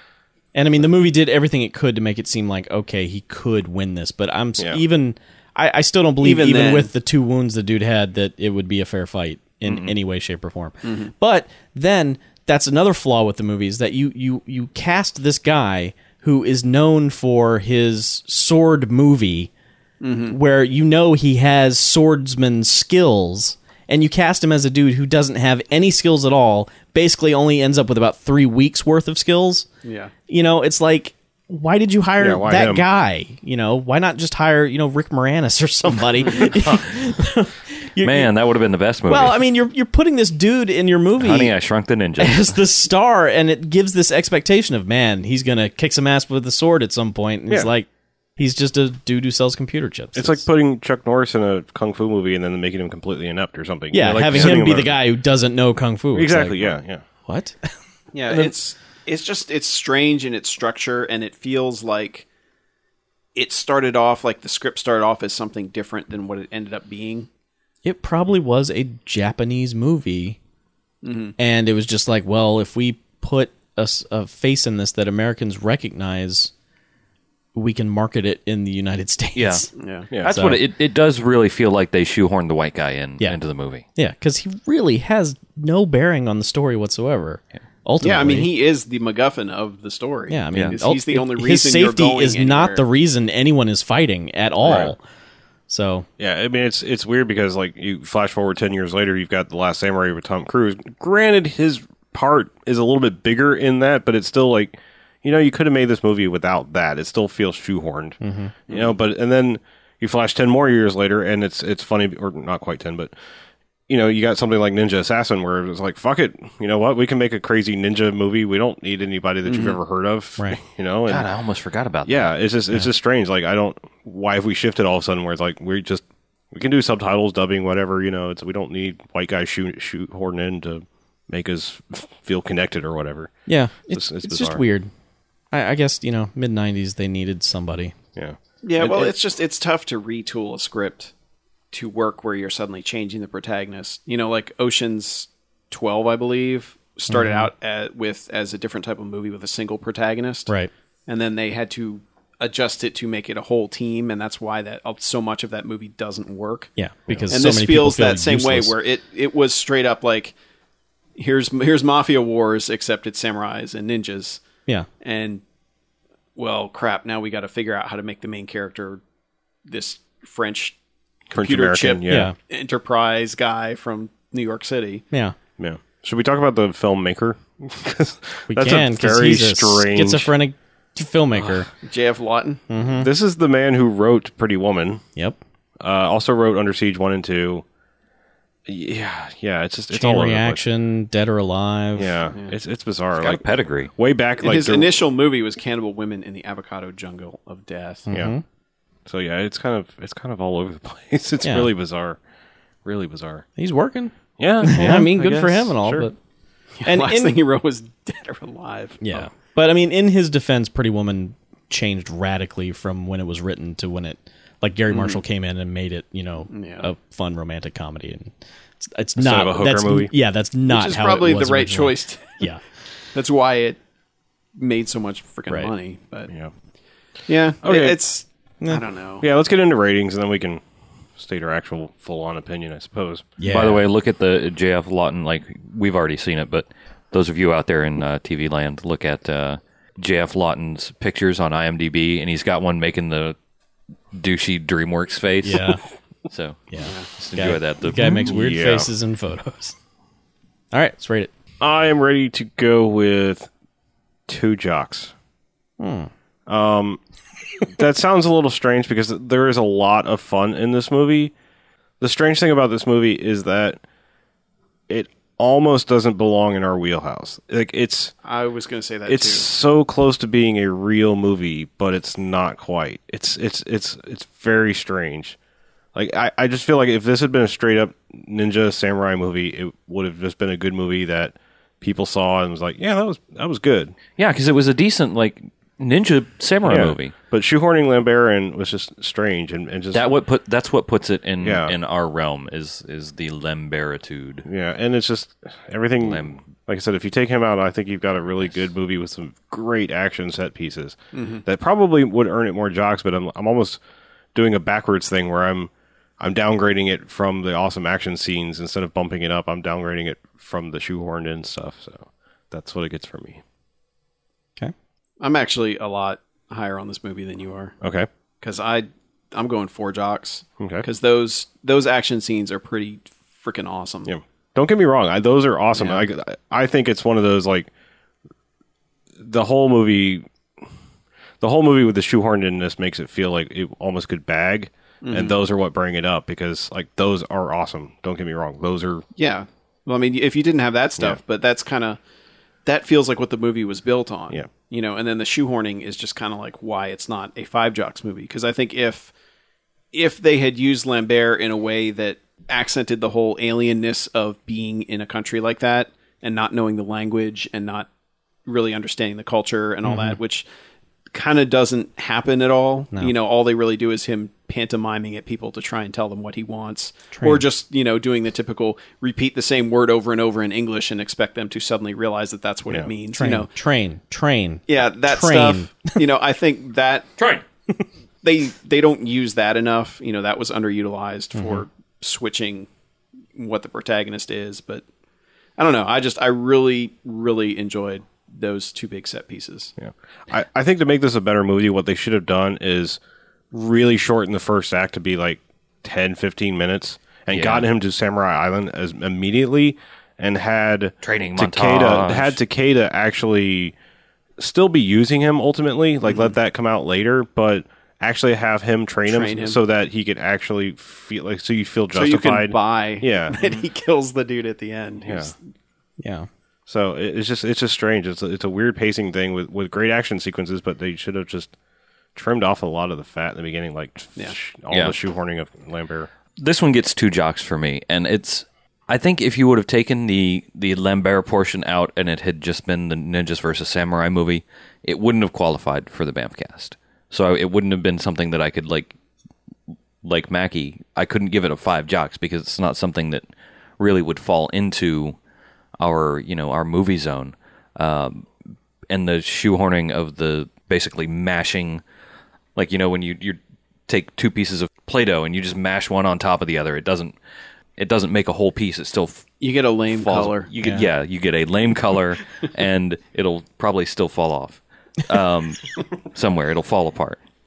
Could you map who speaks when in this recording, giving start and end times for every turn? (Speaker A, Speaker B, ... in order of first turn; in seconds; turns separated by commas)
Speaker A: 0.6-19.5, Speaker B: 4.6-4.8, Speaker C: 6.2-6.9, Speaker D: 9.7-9.9, Speaker C: 10.8-11.1, Speaker C: 20.0-20.4, Speaker A: 20.3-29.7, Speaker C: 29.8-30.1, Speaker A: 30.3-38.3, Speaker B: 32.2-32.9, Speaker D: 38.0-39.4, Speaker A: 39.1-41.5, Speaker D: 41.2-42.5, Speaker A: 42.2-50.5, Speaker B: 50.1-55.0, Speaker A: 53.9-56.8, Speaker B: 56.1-57.0, Speaker A: 57.3-57.7, Speaker C: 58.1-62.3, Speaker A: 58.3-58.5, Speaker C: 63.4-67.3, Speaker A: 67.8-70.4, Speaker C: 71.0-71.3, Speaker A: 71.4-76.5, Speaker A: 77.5-79.7, Speaker D: 79.3-79.7, Speaker C: 79.8-80.1, Speaker B: 80.1-80.4, Speaker D: 80.2-83.8, Speaker A: 80.2-80.6, Speaker A: 84.0-88.5, Speaker C: 88.0-92.8, Speaker A: 90.3-95.0, Speaker B: 94.6-94.9, Speaker A: 95.7-96.1, Speaker B: 96.2-113.1, Speaker A: 108.2-108.5, Speaker C: 108.7-108.9, Speaker B: 113.9-121.3, Speaker C: 119.5-119.8, Speaker D: 121.1-122.3, Speaker B: 122.0-133.3, Speaker A: 133.5-134.9, Speaker B: 133.9-134.6, Speaker A: 135.5-137.9, Speaker B: 138.2-138.9, Speaker C: 138.6-141.1, Speaker A: 138.8-139.1, Speaker C: 141.7-150.5, Speaker A: 147.1-147.5, Speaker C: 151.1-156.7, Speaker A: 156.8-158.7, Speaker B: 157.1-157.3, Speaker C: 157.3-160.3, Speaker C: 161.2-164.4, Speaker C: 165.0-165.4, Speaker C: 166.4-169.0, Speaker C: 169.7-170.8, Speaker B: 171.3-172.3, Speaker C: 171.3-175.1, Speaker A: 172.1-172.3, Speaker B: 175.6-180.3, Speaker A: 178.5-181.7, Speaker C: 181.8-182.6, Speaker A: 182.7-183.1, Speaker B: 182.9-185.0, Speaker B: 185.8-187.7, Speaker B: 188.7-190.6, Speaker A: 189.9-192.2, Speaker B: 192.0-195.0, Speaker D: 193.2-193.9, Speaker C: 194.4-198.1, Speaker A: 198.1-198.4, Speaker B: 199.1-202.2, Speaker A: 201.4-201.7, Speaker B: 202.8-203.4, Speaker A: 203.6-206.2, Speaker B: 204.4-206.1, Speaker C: 206.8-209.0, Speaker A: 206.8-207.4, Speaker A: 209.0-222.6, Speaker C: 214.9-215.2, Speaker C: 216.5-216.9, Speaker B: 219.2-220.1, Speaker C: 220.7-222.5, Speaker C: 223.1-223.8, Speaker C: 224.6-226.3, Speaker C: 227.3-229.2, Speaker B: 227.6-228.0, Speaker B: 229.2-230.6, Speaker B: 231.2-233.3, Speaker A: 233.4-233.9, Speaker D: 233.5-243.4, Speaker D: 244.2-245.7, Speaker A: 245.4-245.8, Speaker D: 246.3-248.4, Speaker A: 246.7-249.8, Speaker B: 248.0-248.9, Speaker A: 250.7-251.3, Speaker B: 251.6-253.5, Speaker B: 254.3-255.1, Speaker A: 255.8-256.1, Speaker B: 256.5-257.0, Speaker B: 257.6-261.3, Speaker B: 262.0-263.8, Speaker B: 264.9-268.1, Speaker C: 268.2-269.5, Speaker B: 269.1-275.4, Speaker B: 275.9-283.9, Speaker D: 284.2-287.1, Speaker B: 286.6-290.1, Speaker D: 289.9-294.5, Speaker B: 291.4-291.7, Speaker B: 294.4-303.8, Speaker D: 296.0-296.4, Speaker C: 301.1-301.4, Speaker B: 304.4-313.4, Speaker C: 315.2-317.7, Speaker B: 317.8-318.1, Speaker C: 318.4-324.1, Speaker B: 320.6-320.9, Speaker B: 324.1-327.7, Speaker C: 325.8-326.0, Speaker B: 329.2-330.3, Speaker B: 331.4-339.1, Speaker C: 335.0-335.4, Speaker C: 339.2-342.0, Speaker C: 342.6-349.1, Speaker C: 349.9-357.9, Speaker C: 358.5-360.5, Speaker A: 359.9-360.2, Speaker C: 361.1-373.5, Speaker A: 367.1-367.4, Speaker A: 373.1-376.0, Speaker C: 374.7-377.1, Speaker D: 377.2-377.4, Speaker C: 378.2-382.7, Speaker A: 381.4-381.6, Speaker C: 383.4-384.9, Speaker C: 385.6-389.7, Speaker B: 389.8-393.0, Speaker B: 393.5-403.8, Speaker D: 397.3-397.7, Speaker D: 401.0-402.4, Speaker B: 404.4-413.4, Speaker C: 406.1-406.3, Speaker C: 409.1-409.6, Speaker C: 411.9-415.4, Speaker B: 415.0-415.3, Speaker A: 416.0-416.3, Speaker B: 416.7-421.5, Speaker B: 422.1-426.1, Speaker D: 424.7-424.9, Speaker D: 426.4-438.9, Speaker D: 440.0-443.2, Speaker D: 443.8-445.2, Speaker D: 445.8-448.3, Speaker D: 448.9-451.8, Speaker D: 452.6-457.2, Speaker D: 457.8-467.2, Speaker C: 459.4-460.5, Speaker A: 460.6-460.9